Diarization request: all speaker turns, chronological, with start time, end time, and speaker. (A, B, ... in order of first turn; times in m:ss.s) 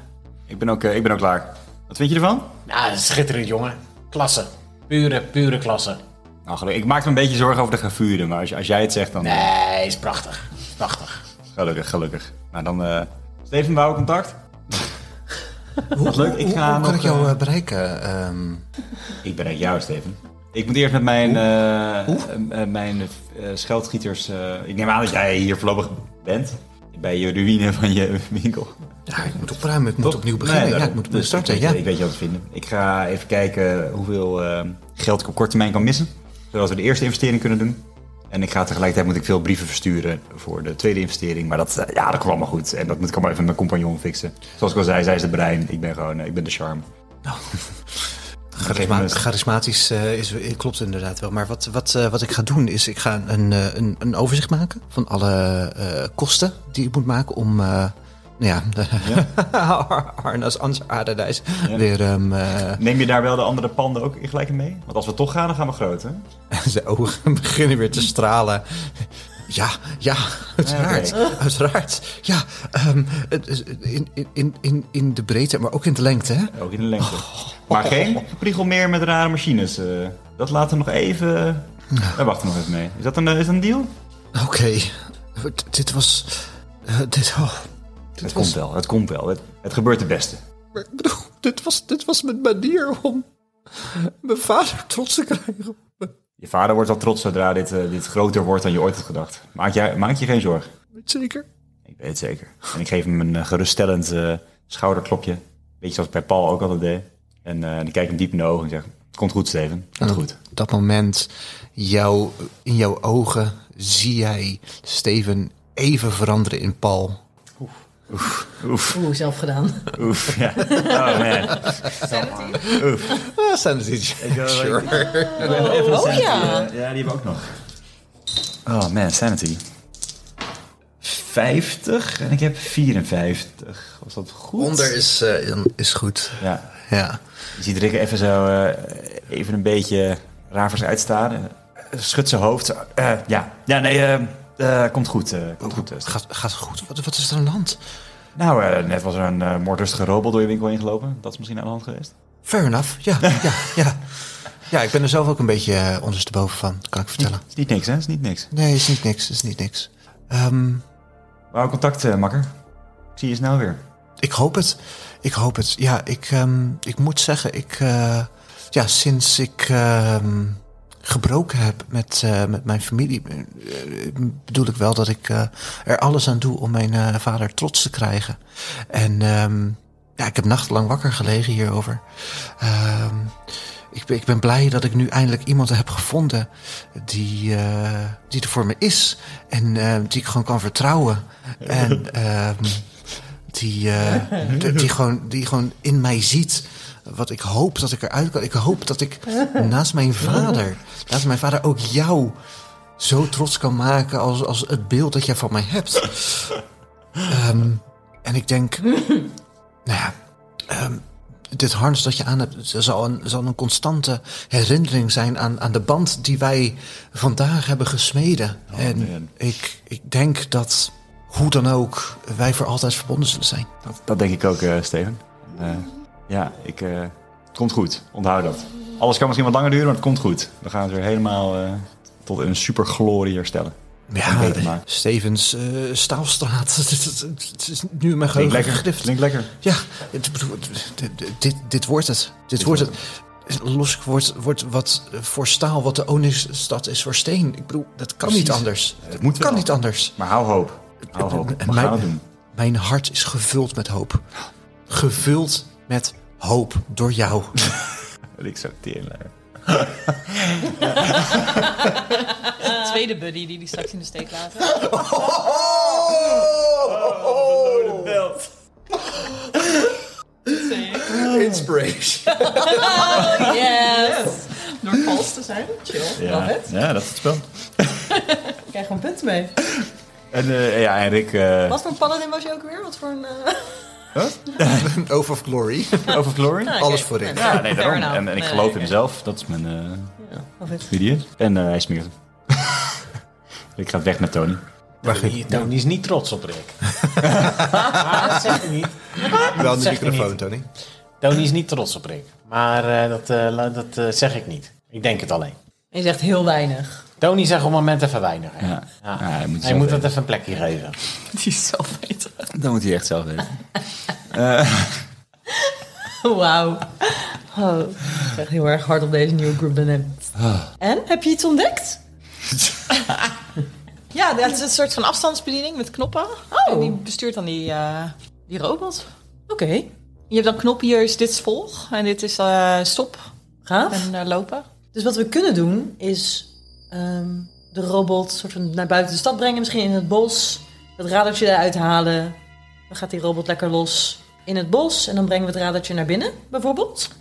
0:00.5-0:02.6 A
0:02.6-0:06.0 B
0:06.4-0:09.5 A
0:09.2-0:11.2 B
0:11.5-0:14.9 A
0:15.9-0:18.6 C
0:15.9-0:17.4 A
0:19.2-0:28.8 A
0:29.1-0:31.8 C
0:30.0-0:46.8 A
0:48.5-1:02.8 C
0:48.6-0:49.2 A
0:59.0-0:59.3 A
1:02.7-1:06.2 A
1:06.5-1:18.2 C
1:10.6-1:11.3 A
1:16.5-1:23.9 A
1:24.3-1:28.5 C
1:28.2-1:30.4 A
1:30.7-1:36.1 C
1:36.4-1:40.7 A
1:40.9-1:41.4 C
1:41.9-1:50.4 A
1:50.0-1:57.2 C
1:58.1-1:59.0 A
1:58.9-2:00.0 D
1:59.9-2:03.2 A
2:00.6-2:01.4 D
2:02.0-2:02.7 E
2:02.0-2:02.4 B
2:02.7-2:05.8 C
2:04.2-2:07.6 A
2:05.2-2:06.4 E
2:05.4-2:06.7 D
2:08.6-2:09.6 A
2:11.0-2:14.9 A
2:14.6-2:17.2 C
2:16.4-2:16.7 A
2:17.5-2:26.1 A
2:25.6-2:27.8 C
2:28.4-2:32.1 A
2:32.4-2:37.4 C
2:33.3-2:33.6 A
2:37.4-2:38.5 A
2:38.5-2:40.8 C
2:41.5-2:42.5 A
2:43.2-2:43.8 A
2:44.2-3:13.0 C
3:13.5-3:22.4 C
3:14.4-3:14.8 A
3:23.0-3:26.6 C
3:27.2-3:29.2 C
3:29.8-3:43.7 C
3:38.7-3:39.3 A
3:43.8-3:54.8 A
3:54.1-4:10.2 C
3:58.3-3:59.5 A
4:02.6-4:02.9 A
4:08.2-4:12.2 A
4:11.1-4:14.2 C
4:14.9-4:17.6 C
4:18.4-4:21.9 A
4:22.5-4:24.9 E
4:24.6-4:28.2 C
4:26.1-4:28.5 A
4:29.1-4:29.9 C
4:30.5-4:31.1 E
4:30.5-4:33.2 C
4:31.0-4:31.6 A
4:32.4-4:34.4 D
4:32.7-4:36.2 E
4:36.2-4:38.1 A
4:36.2-4:36.7 D
4:38.1-4:39.6 D
4:39.7-4:41.8 A
4:41.7-4:43.9 D
4:44.1-4:44.9 A
4:44.6-4:47.6 C
4:46.0-4:50.2 A
4:46.6-4:48.5 D
4:47.8-4:48.7 E
4:50.2-4:50.8 D
4:50.8-4:53.0 A
4:53.8-4:54.6 A
4:55.0-4:56.9 B
4:55.0-4:55.4 C
4:57.0-4:57.9 C
4:57.3-4:57.6 A
4:57.5-5:00.4 B
4:59.3-5:00.7 C
5:01.2-5:05.6 B
5:05.9-5:07.0 D
5:07.2-5:11.0 B
5:08.6-5:10.1 A
5:11.3-5:12.4 E
5:12.5-5:15.0 A
5:15.5-5:20.3 D
5:20.4-5:20.7 A
5:20.8-5:22.0 D
5:24.1-5:29.0 E
5:26.5-5:27.0 D
5:29.5-5:29.9 D
5:30.3-5:33.2 E
5:33.6-5:34.0 D
5:33.9-5:34.6 E
5:34.9-5:42.4 D
5:42.9-5:47.1 D